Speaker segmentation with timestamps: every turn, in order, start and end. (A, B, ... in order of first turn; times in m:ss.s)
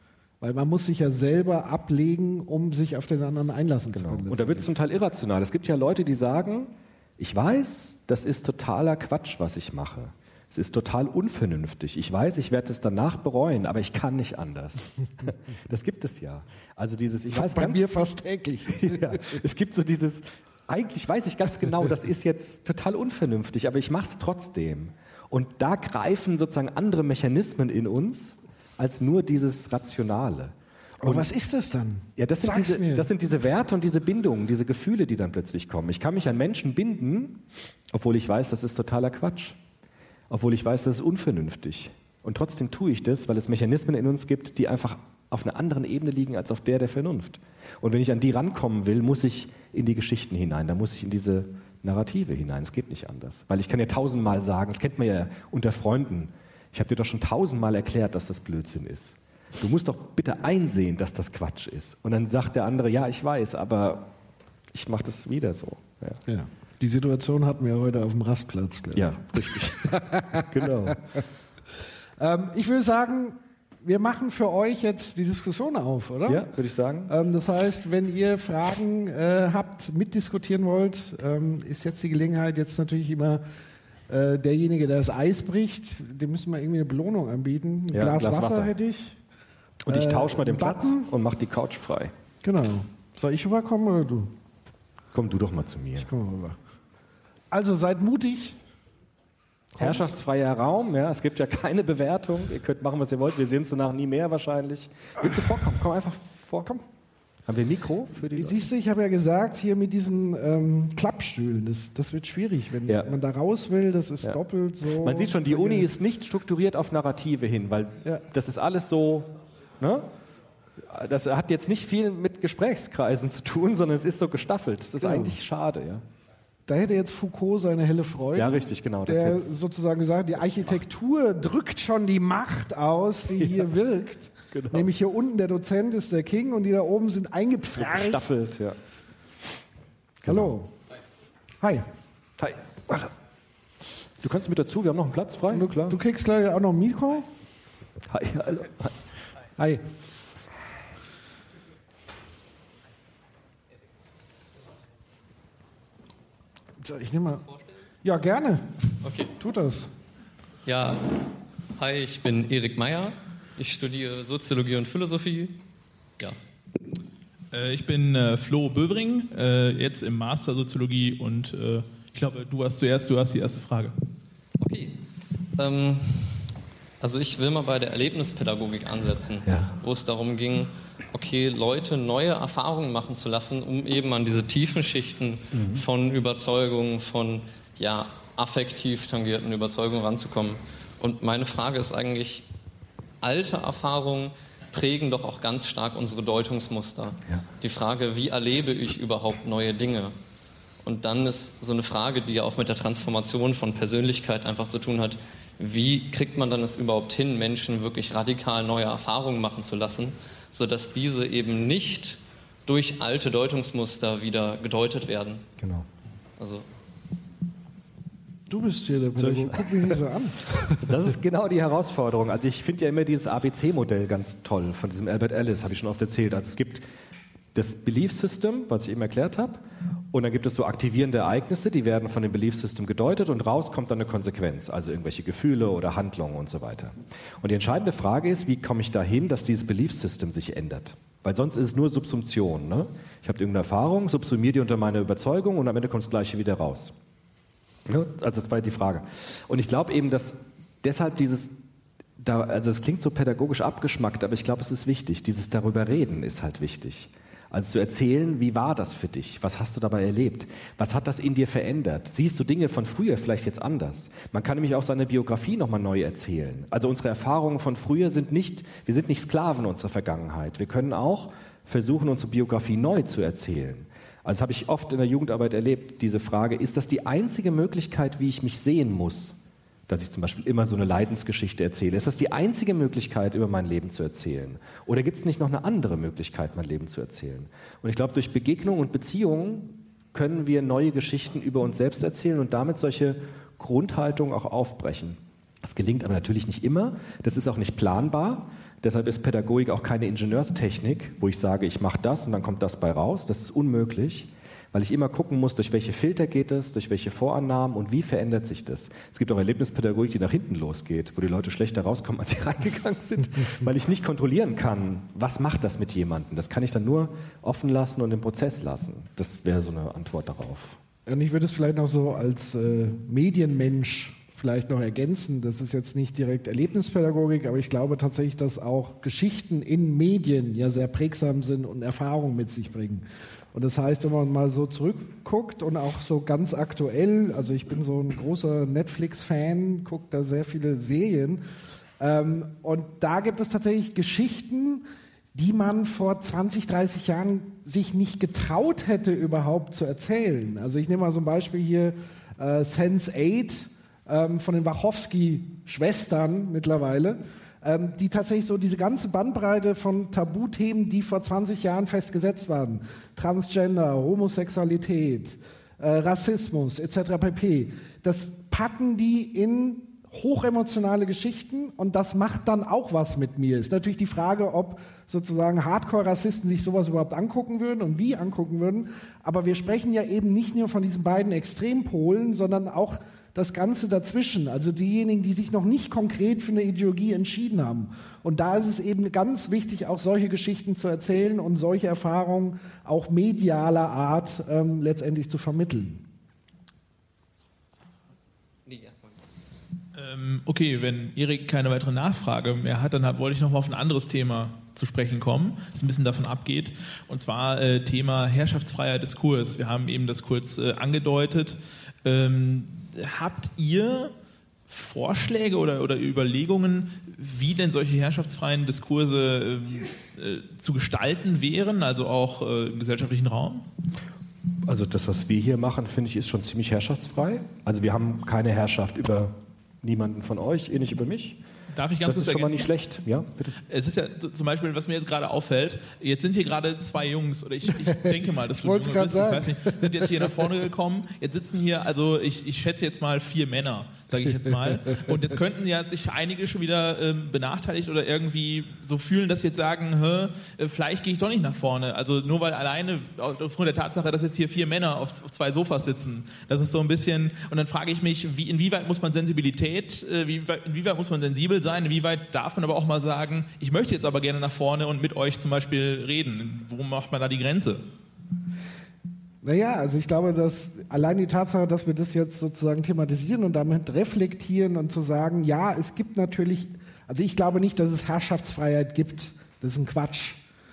0:00.4-0:04.7 A
0:03.9-0:17.8 B
0:17.3-0:19.4 A
0:18.7-0:31.3 B
0:31.0-0:33.1 A
0:32.2-0:39.6 B
0:40.3-1:04.1 B
1:04.7-1:06.2 B
1:06.3-1:09.1 A
1:08.9-1:11.0 B
1:09.9-1:10.4 A
1:12.2-1:16.5 A
1:16.3-1:17.1 B
1:17.1-1:23.4 A
1:24.1-1:29.2 A
1:27.9-1:28.7 B
1:29.8-1:32.1 B
1:29.9-1:31.1 A
1:32.4-1:34.3 A
1:35.1-1:36.1 B
1:36.0-1:36.6 A
1:37.5-1:38.6 A
1:39.8-1:40.1 A
1:39.8-1:46.7 B
1:47.5-1:48.6 B
1:48.3-1:55.9 A
1:55.0-2:00.1 B
2:00.8-2:06.0 B
2:05.0-2:05.3 A
2:06.7-2:18.2 A
2:08.4-2:09.6 B
2:14.5-2:14.9 B
2:17.8-2:18.8 B
2:20.2-2:20.5 B
2:20.3-2:20.7 A
2:21.6-2:21.9 A
2:22.4-2:23.1 B
2:24.2-2:26.0 B
2:25.5-2:27.3 A
2:28.1-2:29.0 B
2:36.8-2:37.4 A
2:38.0-2:39.9 A
2:39.0-2:39.3 C
2:40.7-2:45.6 C
2:47.5-2:54.0 D
2:54.6-2:55.0 C
2:55.6-2:56.5 C
2:57.0-3:12.4 C
2:59.5-2:59.8 B
3:05.5-3:05.8 B
3:13.2-3:20.1 C
3:20.8-3:35.4 C
3:35.6-3:35.9 B
3:36.4-3:36.6 C
3:38.5-3:40.8 A
3:39.2-3:40.0 B
3:40.7-3:46.8 B
3:47.5-4:06.9 B
4:07.9-4:11.5 B
4:12.2-4:39.4 B
4:39.9-5:20.8 B
5:21.1-5:41.4 A
5:42.0-6:36.0 A
6:38.7-6:39.1 C
6:40.0-6:54.1 D
6:54.7-7:03.7 D
7:04.7-7:11.4 B
7:11.7-7:12.7 D
7:12.0-7:13.6 B
7:13.7-7:47.8 D
7:18.5-7:19.9 A
7:49.4-8:00.4 A